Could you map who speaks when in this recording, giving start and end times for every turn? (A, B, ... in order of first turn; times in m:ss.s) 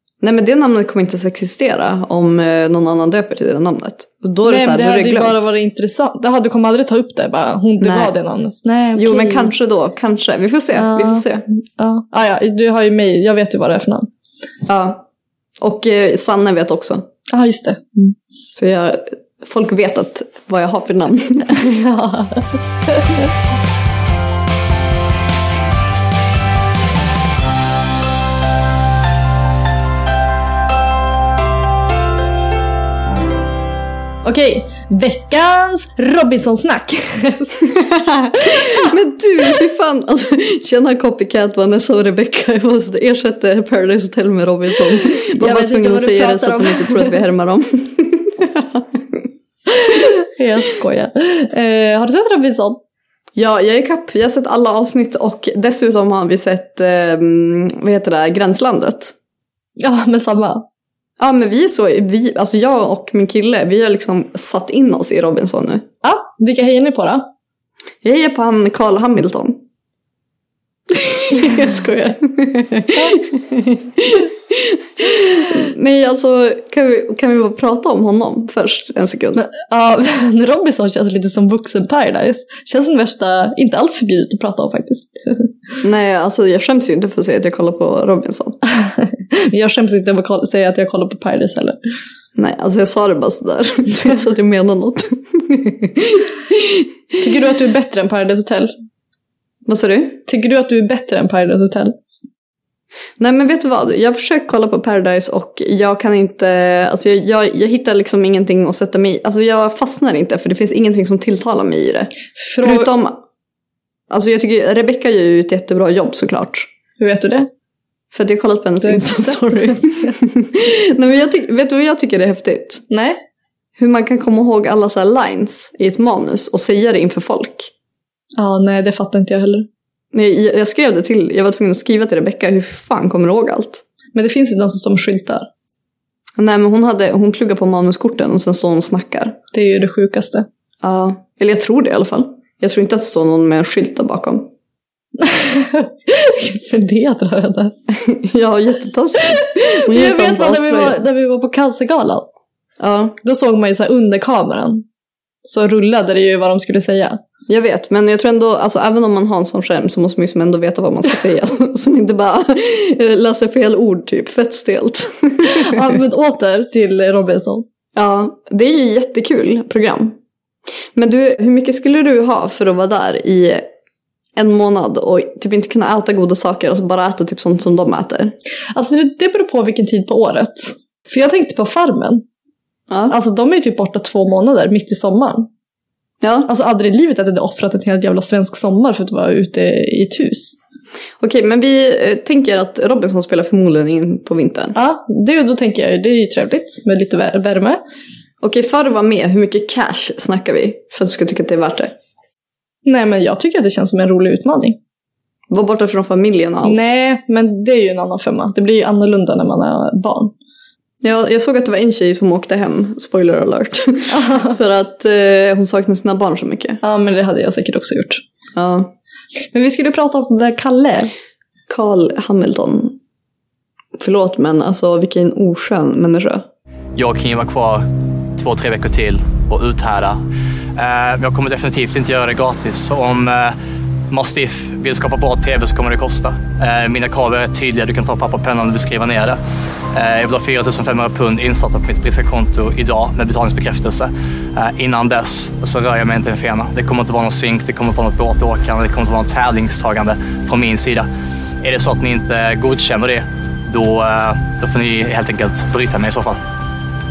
0:00.2-0:05.5 A
0:04.5-0:09.5 B
0:07.8-0:08.1 A
0:08.9-0:11.4 A
0:10.7-0:11.2 B
0:11.8-0:14.1 B
0:14.6-0:15.0 A
0:15.6-0:17.1 A
0:17.3-0:18.2 B
0:18.5-0:21.7 A
0:21.6-0:23.3 B
0:34.2-0:37.7 B
0:37.7-0:48.8 A
0:45.2-0:47.2 B
0:49.7-0:52.8 B
0:53.4-0:59.1 A
0:59.8-1:00.6 B
1:01.2-1:05.9 A
1:06.0-1:07.3 B
1:08.0-1:09.6 A
1:10.9-1:19.4 A
1:11.3-1:12.2 B
1:12.9-1:13.2 B
1:19.4-1:25.5 B
1:25.8-1:28.6 A
1:28.7-1:31.8 B
1:32.4-1:36.9 A
1:37.2-1:38.7 B
1:39.6-1:40.2 A
1:40.3-1:41.9 B
1:43.2-1:53.2 A
1:52.4-1:52.9 B
1:54.1-1:56.7 A
1:57.0-1:57.5 B
1:58.1-2:02.8 A
1:58.8-2:00.1 B
2:02.9-2:03.2 B
2:03.8-2:07.7 A
2:08.4-2:09.7 B
2:10.1-2:13.8 A
2:14.1-2:15.5 B
2:16.4-2:19.4 A
2:19.5-2:20.4 B
2:20.8-2:24.5 A
2:25.2-2:27.7 B
2:27.9-2:31.0 A
2:29.3-2:32.3 B
2:32.8-2:33.2 A
2:33.2-2:34.8 B
2:35.4-2:37.2 B
2:37.5-2:46.0 A
2:45.4-2:47.6 B
2:48.0-2:50.2 A
2:50.9-2:53.7 A
2:54.4-2:58.4 A
2:58.7-3:02.2 B
3:02.9-3:03.2 A
3:03.1-3:05.5 B
3:06.2-3:06.5 A
3:06.5-3:10.6 B
3:11.2-3:14.7 A
3:14.7-3:17.8 B
3:18.4-3:21.9 A
3:22.8-3:24.8 B
3:25.5-3:26.9 A
3:26.6-3:30.3 B
3:31.0-3:36.8 A
3:34.1-3:34.6 B
3:36.8-3:38.2 B
3:38.6-3:38.9 A
3:39.5-3:41.1 B
3:41.7-3:43.0 A
3:44.0-3:46.5 A
3:47.0-3:50.2 C
3:50.7-3:53.6 C
3:54.1-3:59.4 C
3:59.9-4:11.1 C
4:11.6-4:16.4 C